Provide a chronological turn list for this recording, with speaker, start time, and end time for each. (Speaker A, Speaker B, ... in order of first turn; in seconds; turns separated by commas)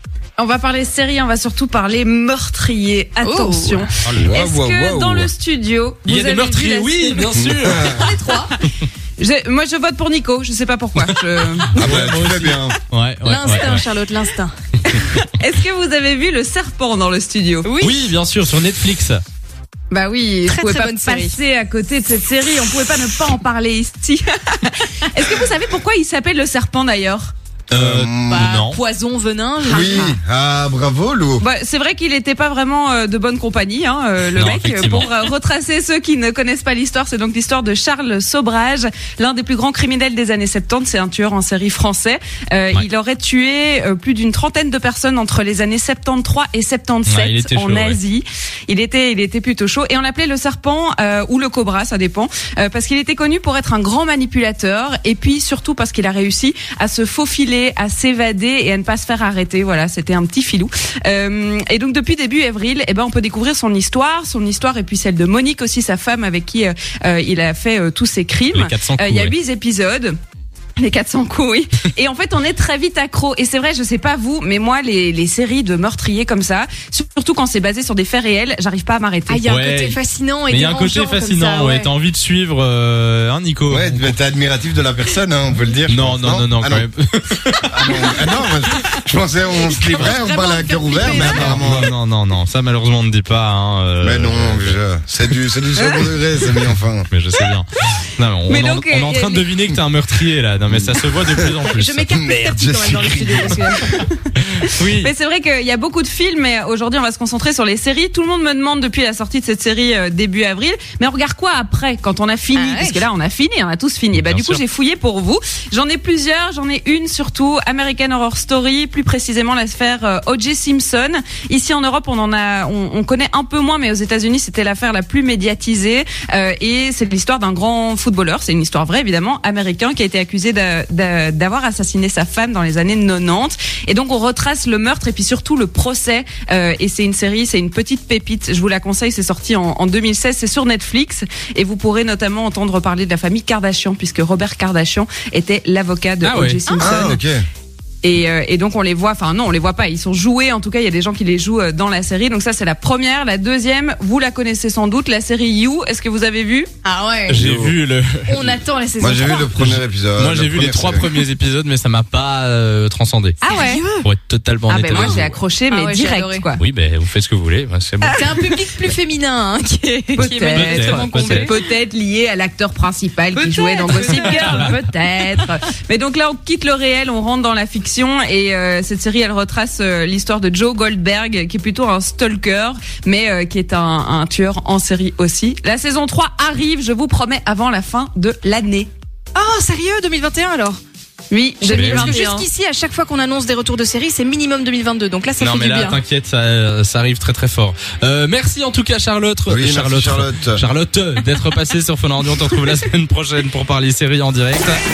Speaker A: 0.4-7.3, Speaker B: 3.2-3.9, Speaker C: 4.0-5.3, Speaker D: 6.0-7.9, Speaker C: 7.3-8.1, Speaker B: 7.8-8.5, Speaker A: 9.2-11.9, Speaker D: 11.7-13.9, Speaker C: 11.8-12.8, Speaker B: 13.2-14.5, Speaker A: 14.9-17.7, Speaker B: 17.6-18.0, Speaker D: 17.8-19.2, Speaker A: 19.9-27.3, Speaker B: 20.5-21.4, Speaker D: 27.7-28.8, Speaker C: 27.7-28.5, Speaker B: 28.3-30.1, Speaker C: 29.6-31.4, Speaker A: 29.7-30.1, Speaker A: 31.4-70.1, Speaker D: 34.3-35.1, Speaker D: 47.0-48.0, Speaker D: 68.5-69.3, Speaker A: 70.8-79.5, Speaker B: 79.3-81.9, Speaker D: 79.5-84.2, Speaker C: 83.7-86.8, Speaker D: 85.9-88.2, Speaker C: 87.7-91.9, Speaker B: 89.7-91.7, Speaker D: 89.9-90.1, Speaker D: 91.1-94.8, Speaker C: 94.0-97.1, Speaker A: 95.8-96.1, Speaker D: 97.1-102.0, Speaker A: 98.5-99.5, Speaker B: 101.6-104.0, Speaker C: 102.1-103.7, Speaker D: 104.4-105.1, Speaker A: 104.6-147.2, Speaker B: 112.5-113.1, Speaker D: 114.1-114.6, Speaker D: 146.2-146.6, Speaker C: 146.8-147.4, Speaker A: 148.0-156.7, Speaker B: 156.8-157.4, Speaker D: 157.3-158.4, Speaker C: 157.4-157.7, Speaker B: 158.3-159.5, Speaker C: 159.0-161.1, Speaker D: 159.5-163.4, Speaker A: 163.4-163.8, Speaker B: 163.4-164.0, Speaker D: 164.0-165.4, Speaker A: 164.7-166.6, Speaker B: 164.9-166.4, Speaker D: 166.6-168.2, Speaker A: 168.0-168.9, Speaker B: 168.1-171.7, Speaker A: 170.1-188.9, Speaker D: 170.2-171.5, Speaker B: 173.3-174.8, Speaker D: 174.4-174.7, Speaker B: 189.3-190.8, Speaker A: 191.3-192.5, Speaker B: 191.6-196.0, Speaker D: 191.7-192.2, Speaker D: 195.4-204.8, Speaker C: 199.5-200.6